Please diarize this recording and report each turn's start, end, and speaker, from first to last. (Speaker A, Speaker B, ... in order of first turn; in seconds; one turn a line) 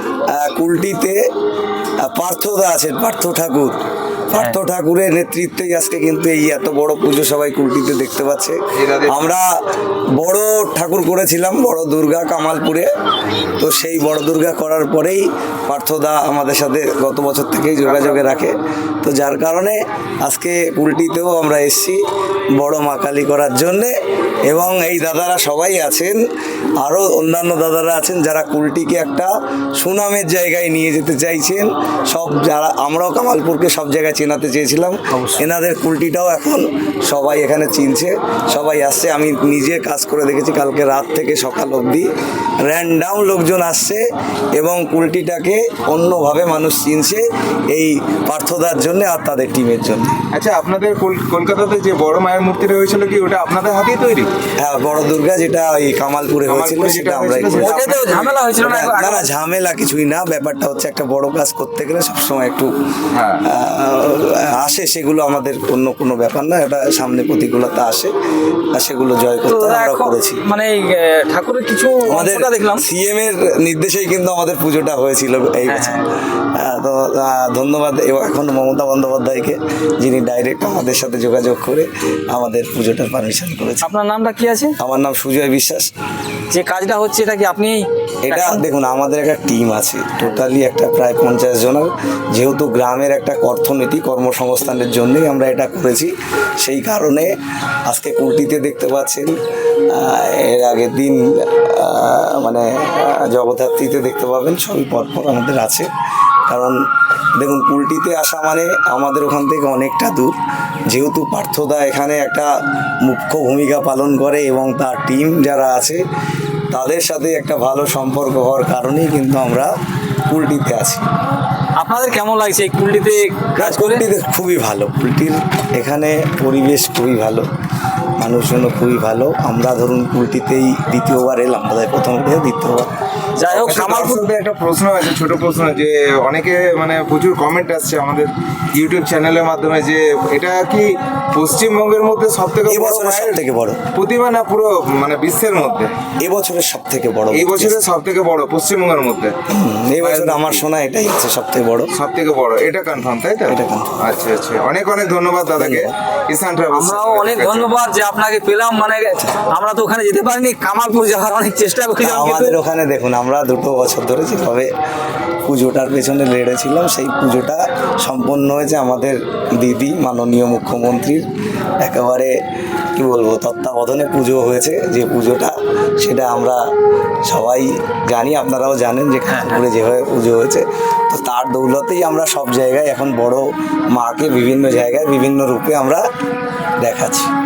Speaker A: 0.3-1.2
Speaker A: 2.0-3.8
Speaker A: 4.3-9.5
Speaker B: 8.8-9.3
Speaker A: 10.2-12.9
Speaker A: 13.6-22.0
Speaker B: 17.9-18.2
Speaker A: 22.6-23.9
Speaker A: 24.5-26.2
Speaker A: 26.8-42.1
Speaker C: 35.1-35.4
Speaker A: 42.6-44.0
Speaker A: 44.6-50.2
Speaker B: 50.3-54.3
Speaker A: 54.6-58.1
Speaker B: 56.5-58.5
Speaker C: 57.6-59.3
Speaker A: 58.6-62.7
Speaker B: 63.1-63.5
Speaker A: 63.5-68.1
Speaker A: 68.7-70.4
Speaker C: 69.5-72.8
Speaker A: 72.1-83.9
Speaker C: 75.7-76.0
Speaker C: 83.8-84.7
Speaker A: 84.8-85.9
Speaker C: 86.5-88.6
Speaker A: 88.3-96.1
Speaker A: 96.6-97.3
Speaker A: 97.9-99.3
Speaker A: 99.9-105.9
Speaker A: 106.5-106.8
Speaker A: 107.4-110.4
Speaker A: 110.9-112.5
Speaker A: 113.0-116.0
Speaker A: 116.7-119.7
Speaker A: 120.3-121.0
Speaker C: 121.8-124.0
Speaker A: 123.6-127.5
Speaker A: 128.2-132.9
Speaker C: 133.4-134.2
Speaker B: 133.5-143.4
Speaker A: 142.7-143.8
Speaker B: 143.9-145.9
Speaker A: 146.2-147.8
Speaker B: 147.3-149.3
Speaker A: 149.5-151.9
Speaker B: 150.0-150.6
Speaker B: 151.9-157.7
Speaker A: 153.5-154.0
Speaker A: 155.6-155.9
Speaker C: 156.7-162.6
Speaker A: 162.0-164.7
Speaker A: 165.5-171.3
Speaker A: 171.8-172.3
Speaker A: 173.0-176.6
Speaker A: 177.2-186.1
Speaker C: 179.3-179.6
Speaker A: 186.8-187.3